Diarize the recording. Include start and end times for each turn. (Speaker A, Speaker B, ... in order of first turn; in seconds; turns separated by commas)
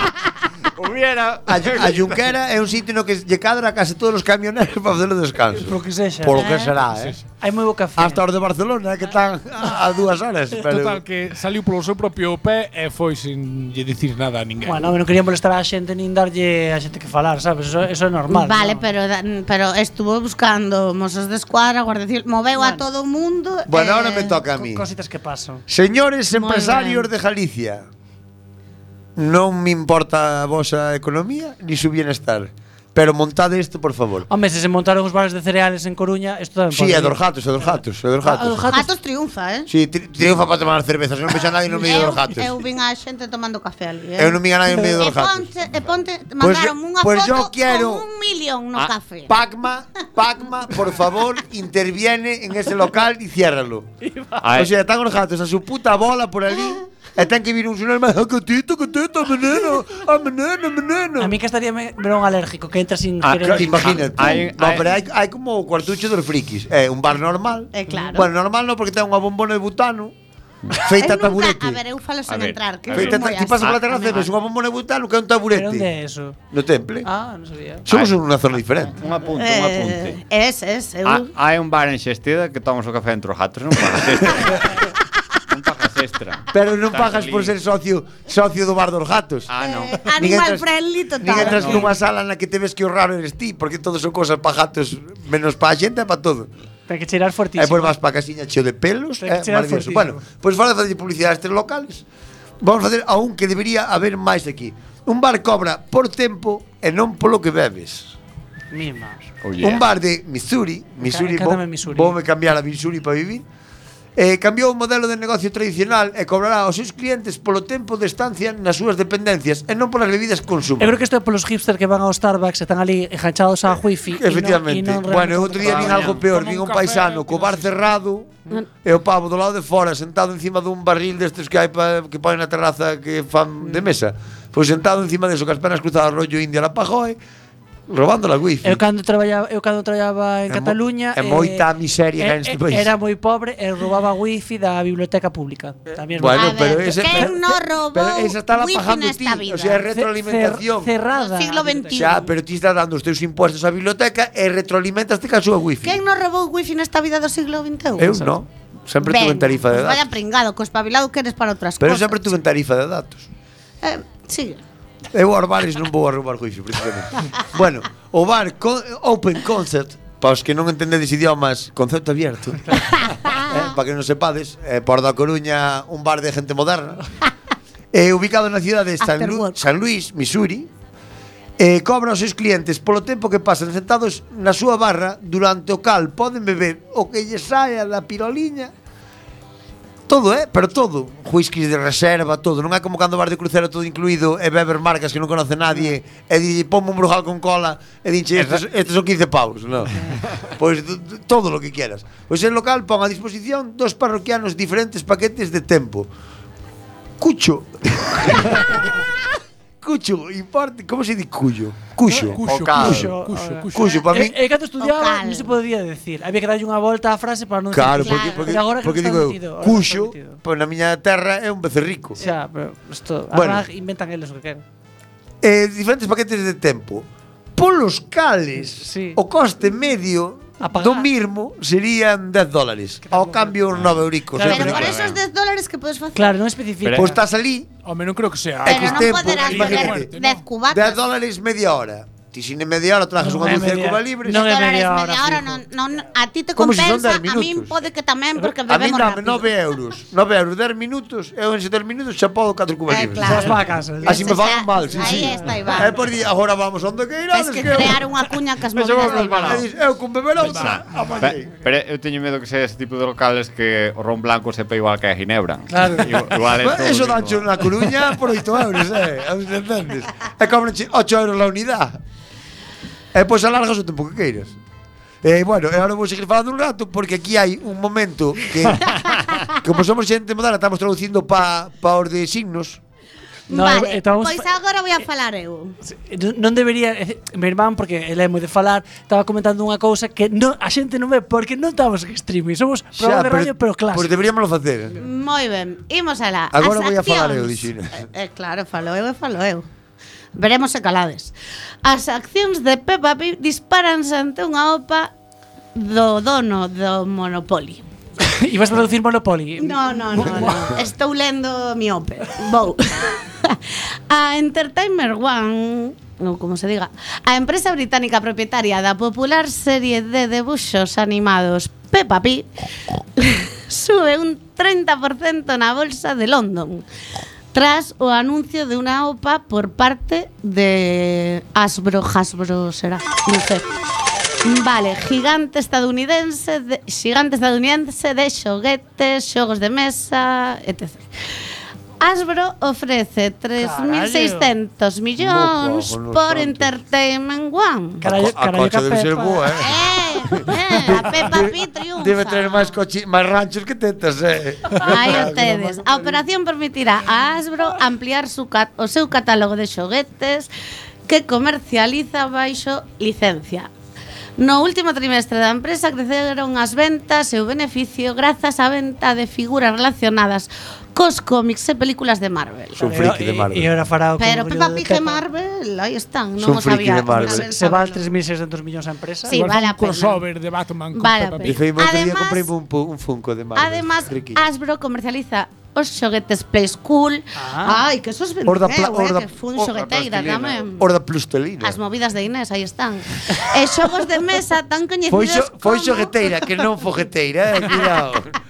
Speaker A: 0.8-2.3, Speaker B: 1.5-7.2, Speaker C: 5.6-6.8, Speaker D: 6.9-7.2, Speaker C: 7.4-8.2, Speaker B: 8.0-11.0, Speaker D: 10.6-14.9, Speaker C: 14.6-18.9, Speaker E: 18.3-24.4, Speaker C: 22.6-22.9, Speaker B: 23.7-24.9, Speaker C: 24.5-25.6, Speaker B: 25.7-27.9, Speaker E: 26.3-27.1, Speaker B: 29.1-34.3, Speaker C: 34.3-37.2, Speaker B: 36.7-38.7, Speaker C: 38.2-38.9, Speaker E: 38.7-39.7, Speaker B: 39.7-42.6, Speaker E: 41.8-49.4, Speaker B: 44.2-45.5, Speaker B: 46.4-48.1, Speaker B: 49.3-53.9, Speaker A: 54.4-54.7, Speaker B: 54.5-61.4, Speaker C: 61.2-64.1, Speaker A: 63.2-64.9, Speaker B: 63.4-70.1, Speaker E: 67.7-68.3, Speaker C: 67.9-68.2, Speaker B: 70.7-71.8, Speaker E: 70.9-74.2, Speaker A: 72.3-74.3, Speaker B: 72.9-75.9, Speaker C: 75.5-76.4, Speaker B: 76.5-77.1, Speaker C: 77.0-77.9, Speaker B: 77.8-79.0, Speaker A: 77.9-78.2, Speaker A: 78.8-80.2, Speaker E: 79.4-81.3, Speaker A: 81.0-84.9, Speaker A: 85.5-87.5, Speaker B: 86.5-89.5, Speaker A: 89.5-90.4, Speaker E: 89.6-91.9, Speaker B: 90.1-90.7, Speaker B: 91.2-96.5, Speaker C: 91.4-91.7, Speaker A: 91.5-91.9, Speaker C: 96.9-97.9, Speaker B: 97.6-102.0, Speaker C: 99.2-100.2, Speaker B: 102.6-108.1, Speaker C: 108.7-109.3, Speaker A: 109.4-109.8, Speaker B: 109.6-113.4, Speaker C: 111.0-112.1, Speaker B: 114.2-121.0, Speaker C: 120.8-126.0, Speaker B: 124.1-137.2, Speaker A: 125.6-126.2, Speaker D: 125.9-127.8, Speaker B: 137.9-138.8, Speaker C: 138.6-141.7, Speaker B: 140.5-142.9, Speaker C: 142.2-147.6, Speaker B: 146.2-147.4, Speaker E: 146.3-149.8, Speaker B: 147.9-150.9, Speaker C: 149.9-152.1, Speaker E: 151.1-152.3, Speaker B: 151.9-156.0, Speaker E: 155.8-158.3, Speaker B: 158.0-160.1, Speaker E: 159.0-162.3, Speaker B: 161.8-163.3, Speaker E: 163.8-164.6, Speaker B: 165.1-177.1, Speaker E: 172.9-173.6, Speaker B: 177.9-180.7, Speaker E: 179.0-179.6, Speaker B: 181.6-188.7, Speaker B: 190.1-206.1, Speaker A: 198.4-198.6, Speaker B: 207.2-208.9, Speaker B: 209.8-213.1, Speaker D: 212.1-214.0, Speaker A: 212.5-213.0, Speaker C: 212.8-220.4, Speaker B: 213.7-214.4, Speaker E: 214.8-215.5, Speaker B: 217.7-222.2, Speaker E: 218.0-218.6, Speaker C: 222.2-224.6, Speaker B: 223.3-223.6, Speaker B: 225.4-234.9, Speaker C: 228.8-229.2, Speaker C: 230.6-231.1, Speaker C: 233.1-233.6, Speaker A: 233.8-235.2, Speaker C: 234.3-234.6, Speaker E: 234.4-236.4, Speaker C: 236.1-237.2, Speaker B: 236.9-237.7, Speaker D: 237.8-240.4, Speaker B: 238.6-240.1, Speaker E: 238.6-241.0, Speaker B: 240.7-244.5, Speaker C: 243.2-245.6, Speaker E: 244.3-249.5, Speaker B: 246.6-247.8, Speaker B: 248.7-258.1, Speaker E: 252.9-255.9, Speaker C: 253.2-255.8, Speaker E: 257.3-259.6, Speaker A: 258.7-259.6, Speaker B: 259.1-261.5, Speaker D: 260.4-261.1, Speaker A: 260.5-267.8, Speaker C: 265.7-266.1, Speaker B: 266.5-272.0, Speaker B: 273.1-274.6, Speaker B: 275.2-282.8, Speaker E: 279.1-279.4, Speaker E: 283.5-285.8, Speaker C: 283.5-284.4, Speaker C: 285.8-294.1, Speaker B: 292.9-295.0, Speaker E: 294.9-299.6, Speaker B: 296.5-298.1, Speaker E: 300.4-305.1, Speaker E: 305.8-307.8, Speaker C: 308.2-310.8, Speaker E: 309.6-322.5, Speaker E: 323.2-326.9, Speaker E: 327.5-333.6, Speaker E: 334.4-341.1, Speaker E: 342.0-348.0, Speaker C: 343.6-344.5, Speaker B: 345.2-346.7, Speaker C: 348.0-349.6, Speaker B: 348.0-356.2, Speaker E: 349.6-352.7, Speaker E: 354.8-360.5, Speaker E: 361.1-363.7, Speaker E: 364.4-372.9, Speaker B: 372.8-373.7, Speaker C: 372.8-375.2, Speaker E: 374.2-378.0, Speaker B: 376.4-377.5, Speaker C: 377.3-379.4, Speaker E: 379.3-380.3, Speaker D: 379.3-381.6, Speaker E: 380.9-382.5, Speaker B: 381.4-384.4, Speaker E: 383.6-390.9, Speaker C: 387.4-387.8, Speaker B: 388.4-389.7, Speaker A: 389.6-390.6, Speaker B: 390.8-391.8, Speaker E: 391.6-396.1, Speaker B: 395.1-398.4